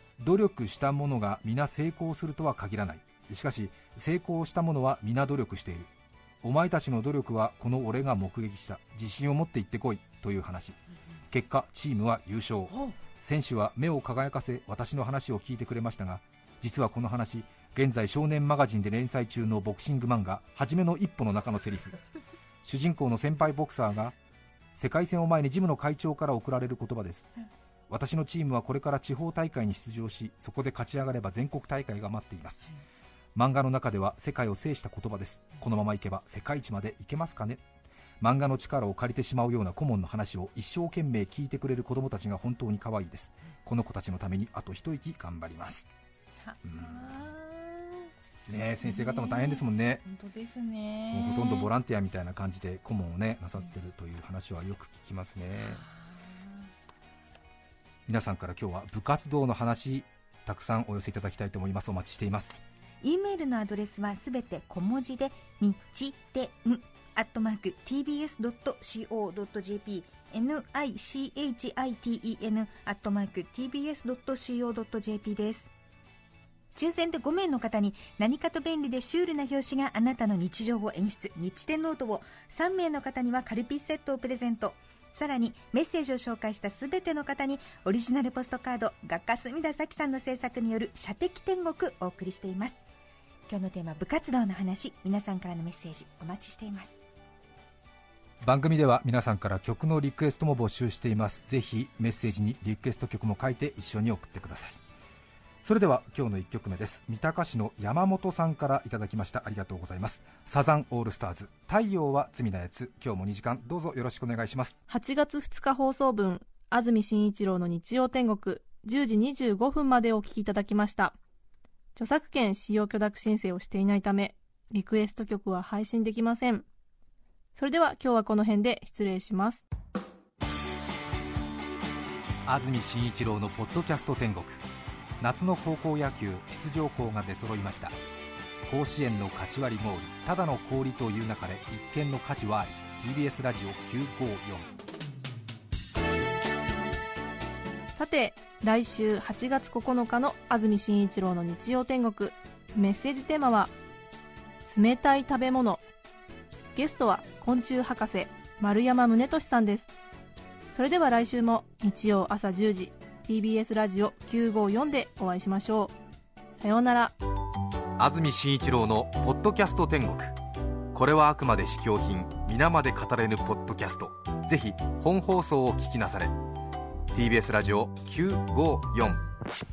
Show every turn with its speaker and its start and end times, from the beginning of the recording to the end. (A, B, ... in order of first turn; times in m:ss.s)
0:00.2-0:05.9 A
0:06.4-0:10.8 A
0:11.3-0:22.0 A
0:12.7-0:13.0 B
0:22.6-0:24.1 A
0:24.8-0:27.3 A
0:27.9-0:32.6 A
0:33.4-0:37.6 A
0:38.2-0:45.9 A
0:46.4-0:48.1 B
0:46.6-0:47.1 A
0:48.5-0:50.0 A
0:48.8-0:51.7 B
0:51.1-0:55.8 A
0:55.6-0:56.7 B
0:58.1-1:02.6 A
1:03.0-1:15.7 C
1:16.8-1:32.8 C
1:33.5-1:37.0 C
1:38.4-1:44.8 A
1:45.6-1:54.8 A
1:54.9-2:01.2 D
2:02.0-2:06.7 D
2:07.6-2:09.6 D
2:12.5-2:14.6 A
2:15.2-2:18.0 A
2:18.7-2:24.7 A
2:28.0-2:33.7 D
2:34.7-2:35.8 D
2:36.8-2:39.9 D
2:40.7-2:45.9 D
2:46.6-2:47.2 D
2:48.0-2:50.4 A
2:50.9-2:56.4 A
2:57.1-2:59.2 A